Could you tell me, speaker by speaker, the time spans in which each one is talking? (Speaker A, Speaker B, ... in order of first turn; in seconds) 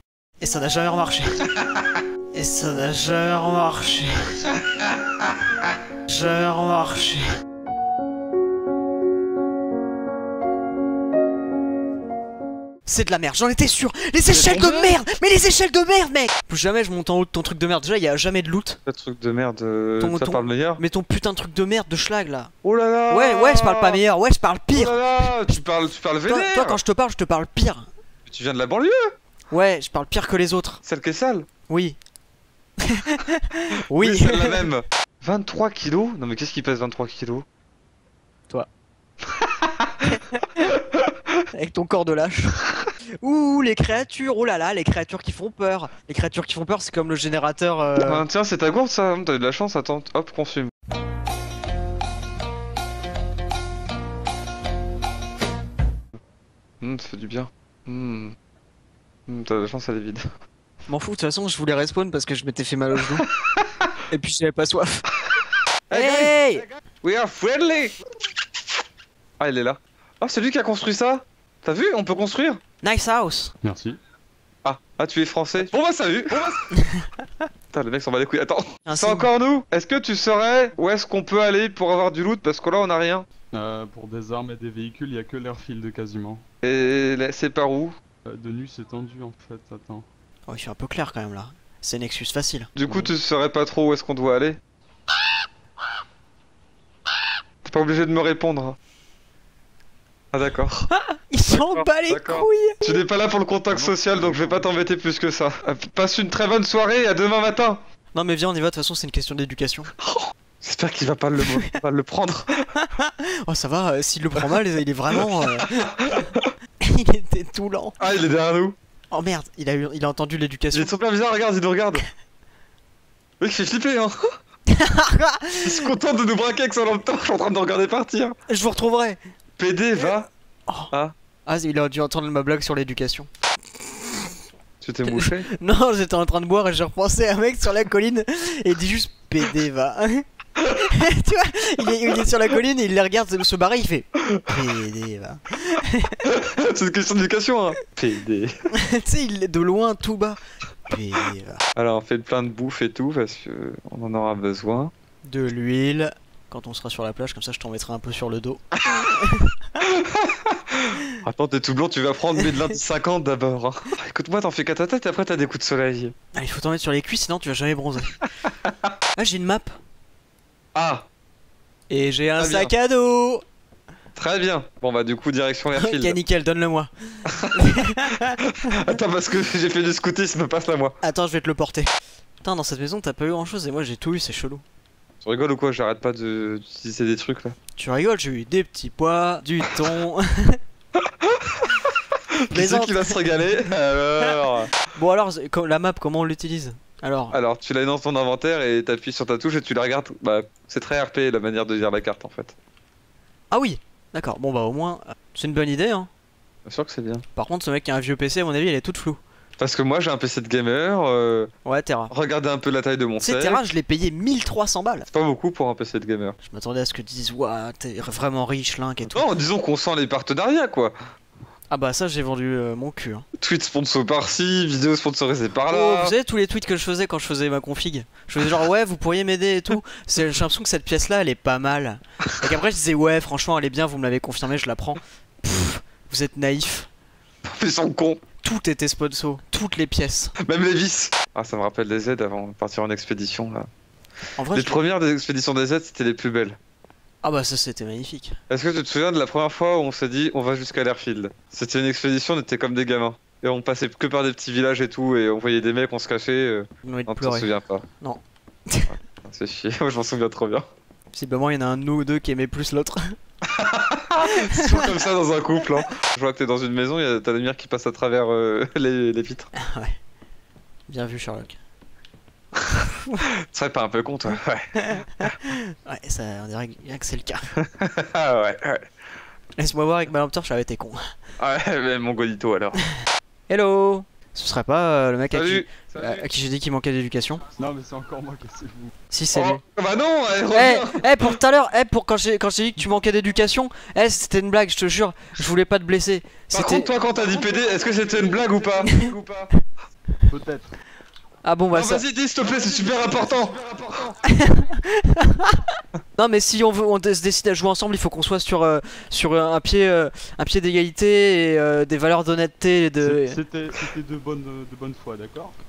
Speaker A: 0.4-1.4, 2.3-4.1, 6.1-7.3, 12.8-18.8, 20.0-22.5, 23.1-25.6, 26.2-27.9, 29.5-30.8, 31.7-32.0, 32.8-34.7, 40.1-40.7, 41.5-42.6, 43.2-48.2, 60.9-63.2, 64.1-65.0, 65.9-66.7, 72.8-73.5, 76.8-77.0, 78.9-79.3, 90.5-92.7, 101.3-102.8, 108.1-109.9, 112.8-115.8, 116.8-118.0, 119.1-120.9, 124.7-125.9, 128.5-129.2, 131.5-133.3, 135.1-140.2, 140.8-146.2, 148.7-150.4, 150.9-151.6, 155.3-159.5, 166.3-168.1, 169.2-169.7, 171.9-173.4, 175.7-178.4, 181.0-181.9, 182.4-184.6, 187.8-190.6, 192.5-193.2, 194.8-197.3, 203.5-206.1, 207.3-209.2, 211.7-212.1, 213.2-215.1, 216.4-219.2, 221.7-223.2, 225.7-236.9, 238.4-240.3, 244.4-244.8, 247.2-248.4, 256.8-257.5, 258.0-258.9, 261.1-263.1, 264.3-264.9, 269.6-269.9, 270.9-271.6, 274.8-277.6, 279.6-281.0, 283.5-287.4, 289.1-289.6, 290.5-296.9, 301.4-302.0, 304.3-305.6, 306.2-313.4
Speaker B: 14.3-15.0, 18.9-20.8, 22.6-24.0, 24.7-26.8, 28.2-29.1, 30.8-31.5, 33.9-37.4, 39.3-39.9, 40.6-41.1, 48.0-50.7, 56.8-58.4, 59.3-60.3, 63.4-63.9, 65.9-68.0, 69.4-72.6, 74.6-76.6, 77.7-83.2, 86.6-88.0, 92.8-94.6, 97.6-98.8, 100.3-100.9, 101.5-107.8, 110.0-112.7, 115.3-116.5, 118.0-118.8, 120.7-122.0, 123.4-124.2, 125.6-128.3, 129.6-130.3, 134.8-135.5, 146.2-148.5, 151.8-154.9, 159.8-166.1, 168.4-168.9, 170.7-171.1, 172.4-172.7, 174.1-176.2, 178.4-181.0, 185.2-187.6, 190.9-191.7, 192.4-194.7, 197.3-202.5, 206.7-207.2, 209.6-211.5, 212.1-213.6, 215.1-216.3, 219.1-220.9, 223.4-226.1, 237.4-238.2, 240.4-243.7, 244.5-246.6, 248.5-257.8, 258.9-260.7, 263.4-269.5, 273.3-275.3, 277.6-278.9, 281.4-282.8, 285.3-286.2, 289.3-291.3, 296.5-299.5, 301.7-304.2
Speaker C: 73.6-74.0, 83.5-86.4, 88.2-90.0, 92.8-93.1, 103.7-104.9, 287.6-288.9, 298.2-298.5, 300.3-300.7, 313.0-315.5